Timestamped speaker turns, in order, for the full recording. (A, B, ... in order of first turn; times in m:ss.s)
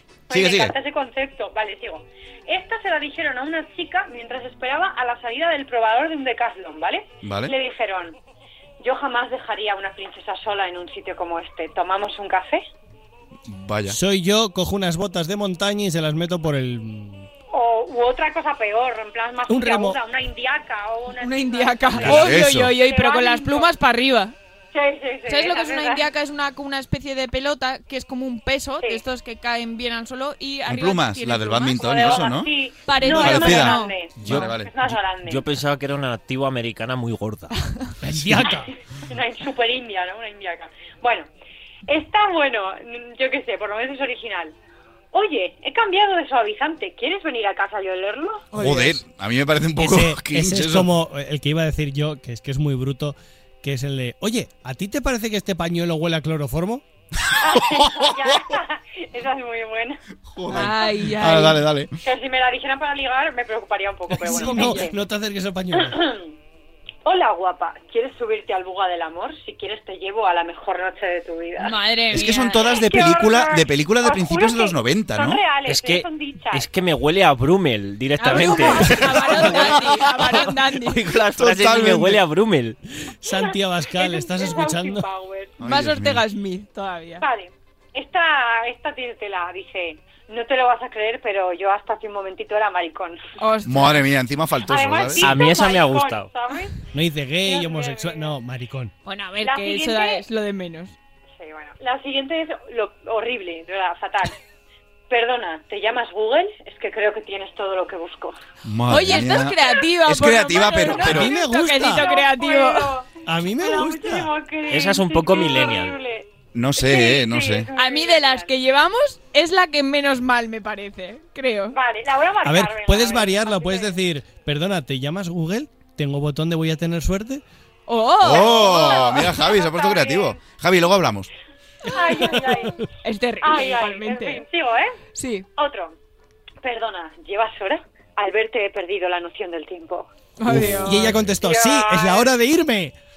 0:00.3-0:08.2 A
0:00.3-0:00.7 B
0:07.2-0:07.5 B
0:08.8-0:12.6 A
0:13.5-0:14.0 B
0:13.9-0:17.3 C
0:17.5-0:23.7 A
0:19.5-0:20.0 C
0:21.2-0:24.3 D
0:22.0-0:22.7 B
0:24.7-0:26.1 A
0:25.3-0:32.3 D
0:30.6-0:34.7 B
0:31.7-0:35.5 A
0:32.8-0:34.5 D
0:35.2-0:37.5 E
0:38.0-0:38.7 C
0:38.4-0:41.3 A
0:41.9-0:44.5 A
0:45.1-0:48.5 A
0:48.5-0:50.9 B
0:48.6-0:49.0 C
0:49.8-0:56.8 C
0:57.3-1:00.0 A
0:57.7-0:58.1 B
1:00.3-1:01.9 B
1:00.5-1:01.6 D
1:02.0-1:05.0 A
1:04.1-1:06.1 C
1:04.3-1:04.9 D
1:05.9-1:06.2 A
1:07.0-1:11.8 A
1:11.6-1:12.9 D
1:12.1-1:15.4 B
1:12.5-1:16.6 A
1:15.6-1:22.8 E
1:18.2-1:21.0 D
1:18.2-1:20.1 A
1:19.0-1:20.5 B
1:21.0-1:22.2 B
1:23.0-1:25.1 C
1:23.3-1:25.6 A
1:25.6-1:26.2 B
1:25.6-1:27.2 D
1:27.2-1:33.2 A
1:33.4-1:34.0 D
1:33.6-1:35.4 B
1:34.7-1:36.8 A
1:35.2-1:36.3 E
1:36.9-1:38.9 C
1:37.4-1:38.4 A
1:39.0-1:41.0 D
1:39.4-1:40.2 A
1:41.4-1:44.4 A
1:45.1-1:48.4 A
1:48.6-1:51.3 B
1:48.9-1:52.9 D
1:50.8-1:58.5 A
1:51.0-1:52.1 C
1:53.2-1:54.3 C
1:54.7-1:56.0 E
1:56.5-1:57.7 B
1:57.8-2:01.8 D
2:01.7-2:04.0 A
2:02.4-2:07.4 C
2:07.9-2:09.0 D
2:08.2-2:11.3 B
2:08.3-2:10.4 A
2:11.8-2:12.9 A
2:12.3-2:12.7 C
2:13.0-2:14.4 D
2:13.4-2:15.0 A
2:15.2-2:15.4 D
2:15.6-2:15.9 A
2:16.6-2:20.1 A
2:20.4-2:21.1 D
2:20.5-2:21.3 B
2:20.5-2:23.0 C
2:21.4-2:22.3 A